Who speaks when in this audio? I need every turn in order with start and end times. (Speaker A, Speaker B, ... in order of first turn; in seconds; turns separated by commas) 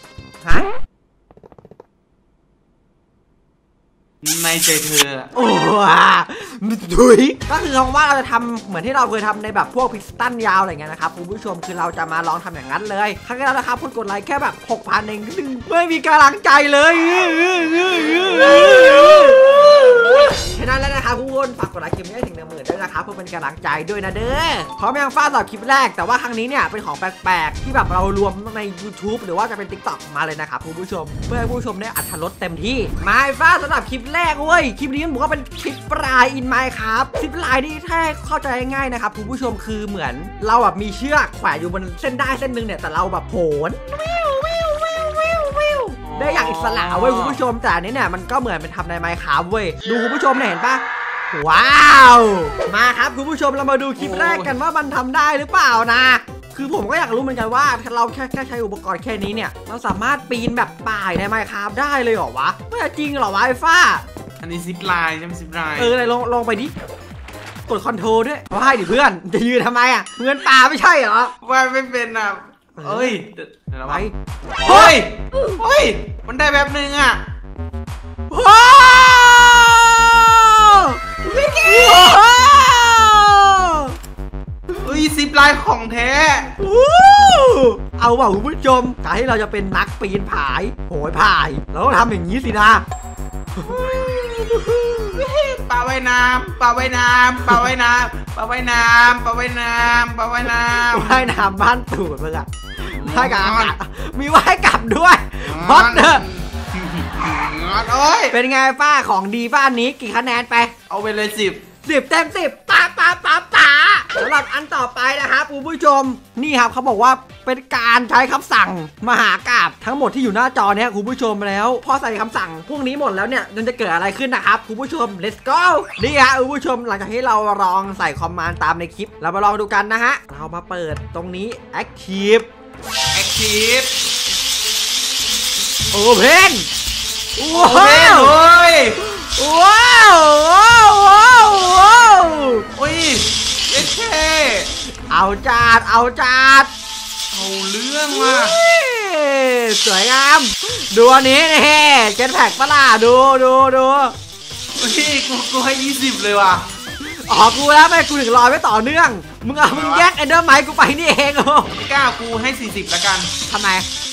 Speaker A: 0.4-0.7, Speaker B: 4.2-5.3, Speaker A: 5.3-64.0, Speaker B: 46.0-47.4, Speaker B: 54.0-54.5, Speaker B: 64.4-65.9, Speaker A: 65.8-66.7, Speaker A: 67.7-71.3, Speaker B: 71.4-74.1, Speaker A: 72.8-73.1, Speaker A: 73.9-75.5, Speaker B: 74.6-77.2, Speaker A: 78.3-84.0, Speaker B: 81.3-82.2, Speaker B: 84.8-86.6, Speaker A: 86.6-92.8, Speaker A: 93.6-95.2, Speaker B: 95.1-101.3, Speaker A: 100.7-106.2, Speaker B: 103.0-103.7, Speaker B: 105.4-108.3, Speaker A: 108.3-110.7, Speaker B: 110.9-111.6, Speaker A: 111.8-132.5, Speaker B: 133.1-133.9, Speaker A: 135.9-136.7, Speaker A: 137.4-138.3, Speaker B: 137.5-139.0, Speaker A: 139.0-142.7, Speaker B: 142.7-144.7, Speaker A: 145.1-146.7, Speaker B: 147.3-148.6, Speaker A: 148.1-154.1, Speaker B: 154.8-156.7, Speaker A: 157.0-161.7, Speaker B: 159.6-160.1, Speaker B: 161.7-163.3, Speaker A: 163.5-163.9